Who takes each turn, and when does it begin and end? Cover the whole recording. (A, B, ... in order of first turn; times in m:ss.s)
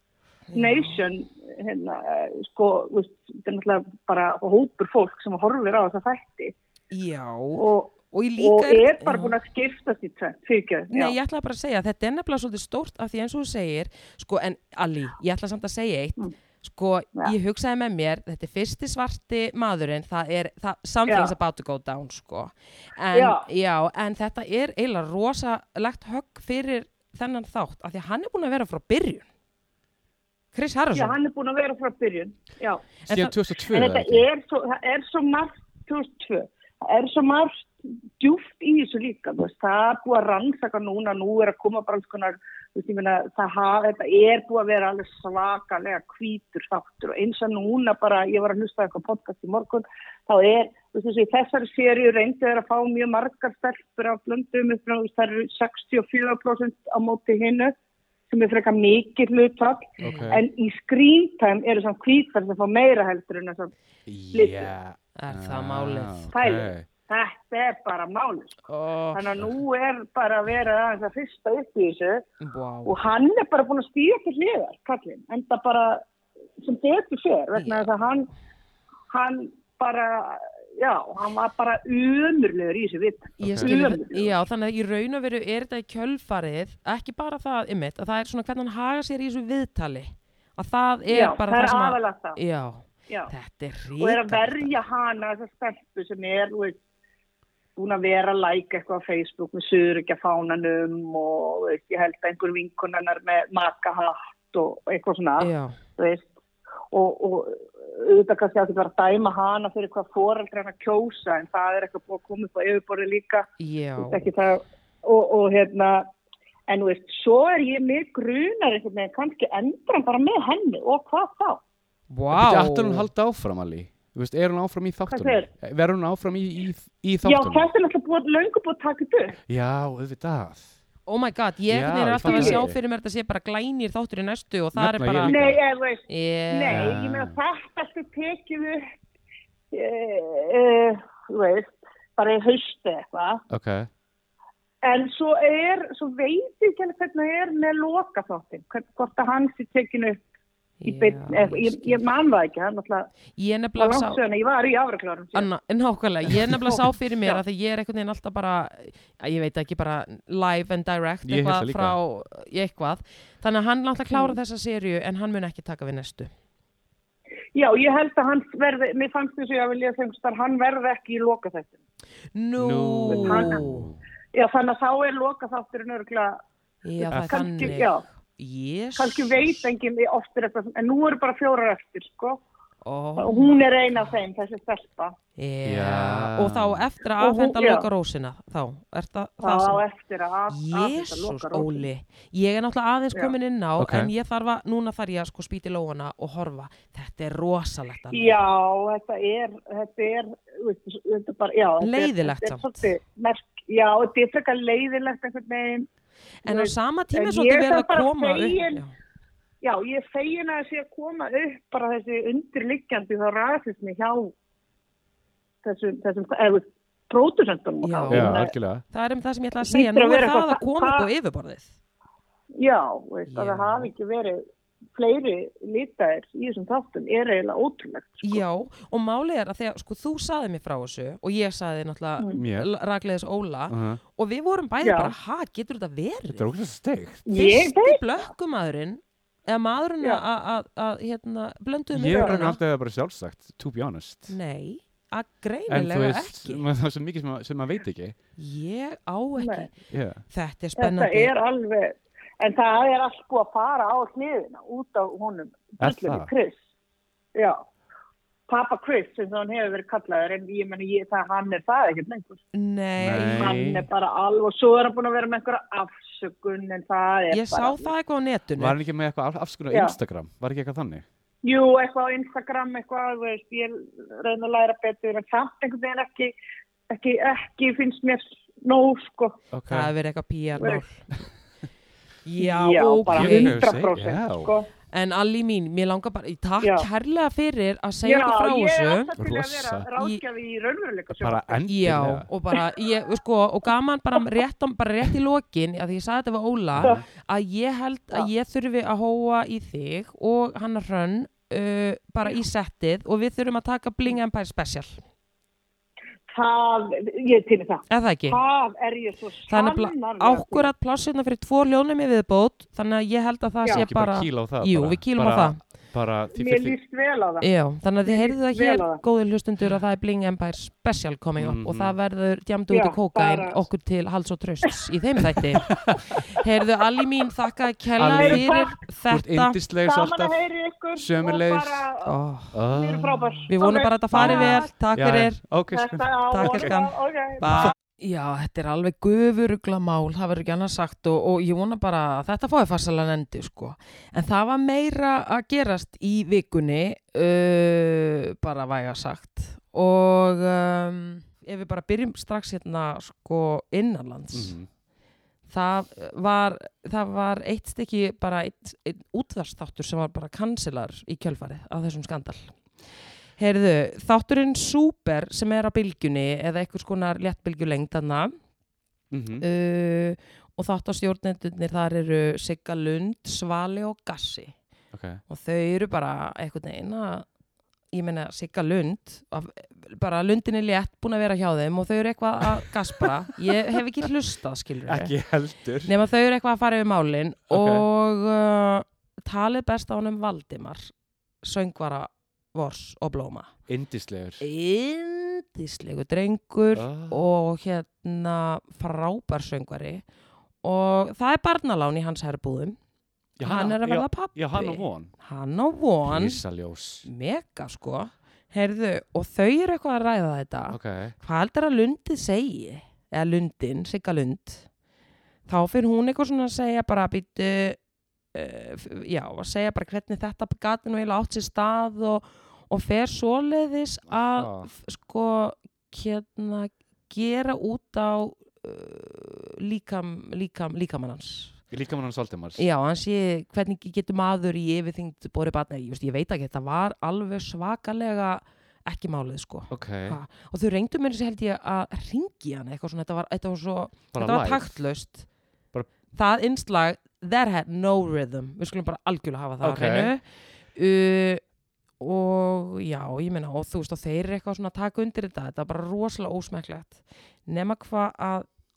0:00.5-0:01.0 A
0:00.6-0:06.5 B
0:06.9-0:09.4 A
0:07.6-0:11.2 B
0:10.9-0:29.3 A
0:21.1-0:21.4 B
0:23.1-0:23.5 B
0:30.5-0:31.2 A
0:30.9-0:32.8 B
0:33.1-0:33.4 A
0:33.1-0:34.2 C
0:33.7-0:57.8 B
0:58.3-1:03.7 B
1:00.0-1:00.4 A
1:00.0-1:00.4 C
1:04.1-1:06.9 C
1:04.3-1:04.7 B
1:05.2-1:06.3 A
1:06.3-1:12.3 B
1:08.7-1:09.2 A
1:12.4-1:13.0 A
1:12.9-1:16.0 B
1:16.6-1:18.3 B
1:17.6-1:17.9 A
1:19.1-1:24.4 B
1:23.4-1:23.7 C
1:23.4-1:34.7 A
1:31.1-1:32.4 B
1:34.0-1:36.8 B
1:37.8-1:46.3 B
1:45.4-1:45.8 A
1:46.9-1:56.1 B
1:53.6-1:54.3 A
1:56.7-2:01.6 B
2:02.1-2:03.1 A
2:02.3-2:07.7 C
2:05.1-2:05.5 B
2:07.2-2:09.4 B
2:09.5-2:10.7 C
2:11.1-2:15.4 A
2:11.7-2:12.8 C
2:12.2-2:12.6 B
2:14.8-2:15.6 C
2:15.3-2:18.9 B
2:16.1-2:17.0 A
2:16.7-2:17.4 C
2:19.7-2:23.4 B
2:23.5-2:23.9 C
2:24.8-2:30.2 B
2:30.8-2:32.0 A
2:30.8-2:33.1 B
2:33.4-2:34.2 A
2:33.8-2:35.5 B
2:35.3-2:46.3 A
2:36.7-2:37.4 B
2:41.2-2:42.0 C
2:44.1-2:44.4 B
2:47.6-2:51.8 B
2:52.3-2:53.9 A
2:52.6-2:54.0 C
2:53.1-2:53.7 B
2:54.3-2:56.4 B
2:56.8-2:59.7 A
2:57.0-2:58.0 B
2:59.0-3:02.4 B
3:02.8-3:04.1 A
3:03.2-3:05.2 B
3:05.4-3:09.8 A
3:05.6-3:06.8 C
3:07.2-3:07.9 B
3:09.4-3:11.9 B
3:10.5-3:18.4 A
3:13.8-3:14.1 C
3:18.1-3:25.9 B
3:21.8-3:22.9 A
3:26.4-3:28.9 A
3:26.5-3:28.8 B
3:29.6-3:34.3 B
3:35.6-3:38.5 B
3:37.8-3:41.7 A
3:38.1-3:38.8 C
3:39.6-3:41.1 B
3:42.6-3:44.4 B
3:43.3-3:43.9 A
3:45.0-3:48.4 B
3:48.2-3:56.5 A
3:52.4-3:52.7 C
3:53.7-3:54.0 C
3:54.8-3:55.1 B
3:56.3-3:57.3 C
3:57.3-3:58.2 B
3:57.3-4:02.6 A
4:01.9-4:04.4 C
4:02.1-4:02.4 B
4:04.3-4:06.6 A
4:05.7-4:08.2 C
4:08.4-4:09.7 A
4:09.4-4:09.7 B
4:09.9-4:10.2 C
4:10.3-4:11.3 A
4:10.8-4:16.6 B
4:15.8-4:16.3 C
4:17.4-4:17.6 B
4:18.5-4:22.4 B
4:22.5-4:23.6 A
4:23.0-4:23.9 C
4:23.4-4:27.9 B
4:27.3-4:28.8 A
4:28.6-4:31.0 C
4:29.7-4:30.0 B
4:31.4-4:36.3 B
4:36.9-4:39.4 B
4:39.5-4:39.9 C
4:39.7-4:41.1 A
4:42.2-4:43.6 A
4:42.4-4:44.7 B
4:43.1-4:44.5 C
4:44.9-4:49.1 A
4:46.6-4:46.9 B
4:48.0-4:51.7 B
4:49.2-4:49.9 C
4:51.1-4:52.3 C
4:51.7-5:05.0 A
4:56.7-4:57.0 C
5:06.3-5:10.7 B
5:07.9-5:08.4 A
5:09.5-5:15.6 A
5:13.7-5:16.8 C
5:16.3-5:17.5 B
5:17.4-5:29.6 A
5:18.1-5:19.0 B
5:21.4-5:22.0 C
5:22.7-5:23.6 B
5:25.7-5:26.2 C
5:28.0-5:28.5 C
5:28.1-5:28.8 B
5:29.1-5:30.3 C
5:29.8-5:32.1 B
5:31.0-5:31.8 C
5:32.0-5:32.6 A
5:32.5-5:33.4 C
5:32.7-5:34.7 B
5:33.5-5:35.4 A
5:34.1-5:36.8 C
5:35.7-5:37.7 B
5:36.3-5:54.6 A
5:37.5-5:37.7 C
5:54.3-5:54.7 C
5:55.5-6:02.6 A
6:03.4-6:08.3 A
6:09.1-6:09.4 C
6:09.4-6:14.6 A
6:14.9-6:15.2 C
6:15.3-6:17.3 A
6:17.9-6:25.1 A
6:23.0-6:23.8 C
6:24.9-6:25.9 C
6:25.8-6:33.5 A
6:27.5-6:27.8 C
6:33.7-6:34.4 C
6:34.4-6:40.0 A
6:36.8-6:37.3 C
6:40.6-6:42.8 A
6:43.4-6:45.1 C
6:43.4-6:46.4 A
6:46.1-6:47.1 C
6:47.0-6:54.7 A
6:50.7-6:51.2 C
6:55.5-6:57.8 A
6:58.3-7:11.6 A
7:04.1-7:04.7 C
7:11.7-7:12.6 C
7:12.6-7:25.3 A
7:19.7-7:20.2 C
7:24.1-7:24.7 C
7:26.1-7:30.2 A
7:29.6-7:30.1 C
7:30.8-7:31.4 A
7:32.0-7:38.5 A